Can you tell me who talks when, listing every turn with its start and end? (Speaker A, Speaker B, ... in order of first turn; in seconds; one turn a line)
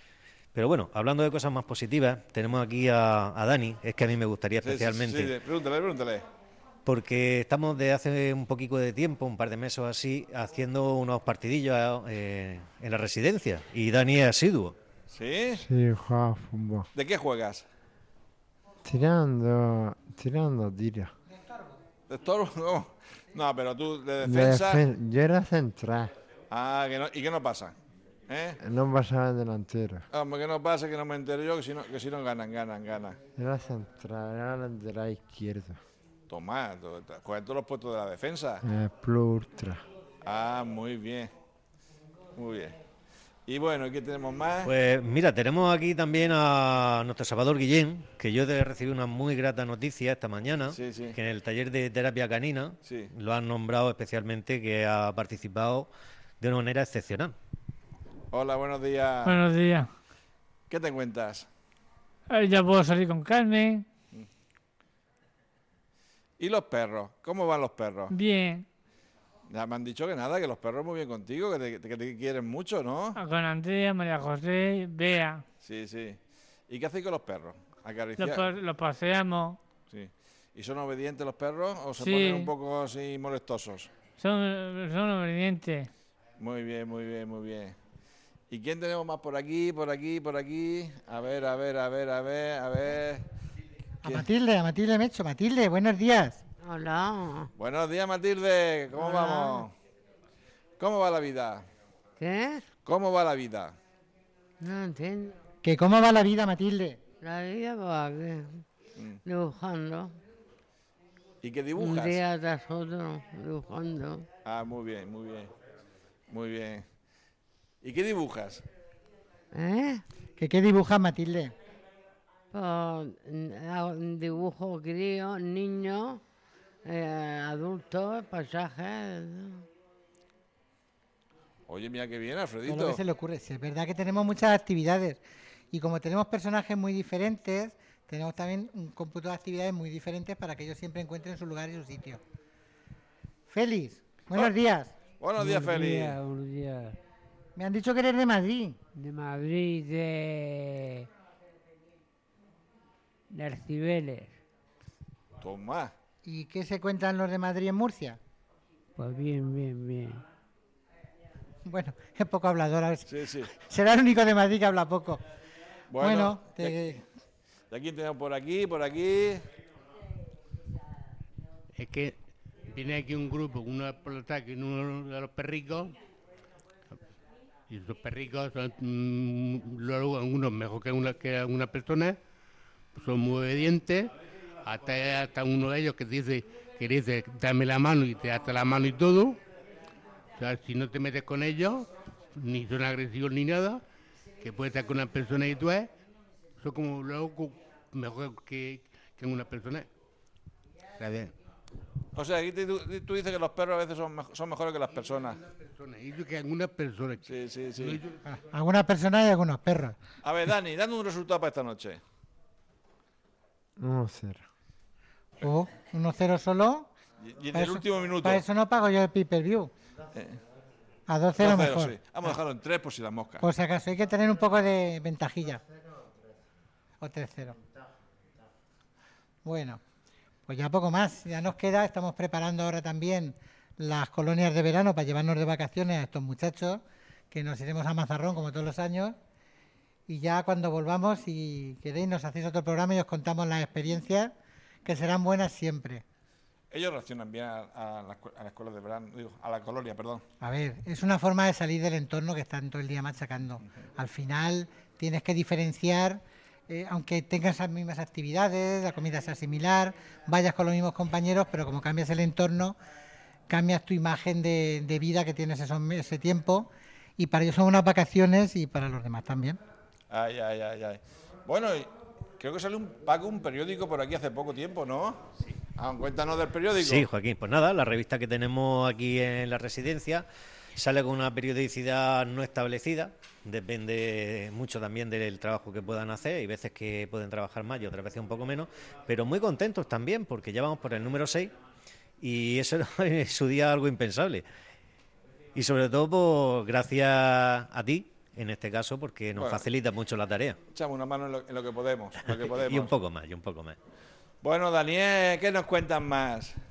Speaker A: 0.5-5.3
Speaker B: 4.6-6.2
Speaker A: 6.8-14.8
Speaker B: 15.1-15.6
Speaker C: 15.5-16.9
Speaker B: 16.9-17.6
Speaker C: 18.8-21.1
Speaker D: 21.3-21.8
Speaker B: 22.1-24.8
Speaker C: 24.2-26.1
Speaker B: 26.5-27.7
Speaker B: 28.3-28.6
Speaker C: 28.6-30.1
Speaker B: 30.1-33.2
Speaker C: 33.4-35.8
Speaker B: 36.3-38.6
Speaker C: 38.6-39.8
Speaker B: 40.2-41.3
Speaker B: 42.3-42.8
Speaker B: 43.5-44.7
Speaker A: 44.6-57.3
Speaker B: 50.7-51.2
Speaker B: 52.8-53.1
Speaker B: 58.3-59.4
Speaker E: 59.2-59.9
Speaker B: 60.7-61.5
Speaker E: 62.3-63.9
Speaker B: 66.4-68.1
Speaker E: 68.1-68.7
Speaker B: 69.5-73.2
Speaker E: 73.1-75.4
Speaker B: 75.6-78.5
Speaker E: 78.2-79.6
Speaker B: 79.9-83.9
Speaker E: 82.0-82.5
Speaker E: 84.2-85.9
Speaker B: 86.4-87.8
Speaker B: 88.5-93.2
Speaker D: 94.0-96.4
Speaker F: 96.6-97.5
Speaker B: 97.6-99.7
Speaker F: 99.1-99.6
Speaker B: 100.8-101.7
Speaker F: 102.2-102.6
Speaker B: 102.8-103.7
Speaker F: 104.6-105.4
Speaker D: 105.6-107.0
Speaker F: 107.2-108.6
Speaker B: 109.0-109.2
Speaker F: 109.3-110.2
Speaker B: 111.4-112.2
Speaker F: 111.8-114.2
Speaker B: 114.4-115.5
Speaker B: 116.3-116.8
Speaker B: 117.8-118.6
Speaker F: 119.5-120.0
Speaker D: 120.4-121.5
Speaker F: 122.5-126.2
Speaker F: 126.8-129.6
Speaker B: 131.7-133.0
Speaker D: 132.7-135.2
Speaker D: 135.7-142.2
Speaker D: 143.5-144.9
Speaker B: 145.2-146.2
Speaker G: 145.3-147.0
Speaker D: 147.6-148.8
Speaker G: 148.9-151.1
Speaker G: 153.3-154.4
Speaker B: 155.4-155.9
Speaker D: 156.2-158.2
Speaker G: 159.0-160.2
Speaker D: 161.6-165.2
Speaker B: 163.1-163.5
Speaker B: 165.9-166.8
Speaker D: 166.0-167.0
Speaker B: 167.7-169.4
Speaker H: 171.7-172.2
Speaker H: 172.7-175.9
Speaker H: 177.7-182.2
Speaker H: 182.9-184.1
Speaker H: 184.6-189.4
Speaker H: 190.4-193.8
Speaker H: 194.4-195.9
Speaker H: 196.6-199.9
Speaker H: 201.0-201.3
Speaker B: 202.1-205.4
Speaker H: 205.5-208.1
Speaker B: 207.2-208.0
Speaker D: 208.3-210.0
Speaker B: 210.2-212.0
Speaker C: 213.8-214.4
Speaker D: 215.4-216.9
Speaker B: 217.2-218.4
Speaker D: 217.5-219.7
Speaker B: 220.1-220.4
Speaker D: 221.1-222.3
Speaker B: 221.4-223.4
Speaker D: 223.4-225.6
Speaker D: 227.0-227.6
Speaker D: 229.4-229.8
Speaker D: 230.5-239.2
Speaker D: 240.1-244.3
Speaker D: 244.8-246.0
Speaker B: 246.7-250.2
Speaker D: 250.4-262.8
Speaker D: 263.5-269.6
Speaker B: 270.1-275.2
Speaker B: 275.8-277.1
Speaker A: 276.7-291.5
Speaker A: 292.2-294.4
Speaker A: 295.5-300.6
Speaker B: 299.4-299.6
Speaker B: 300.7-302.9
Speaker A: 302.2-303.8
Speaker B: 304.4-306.5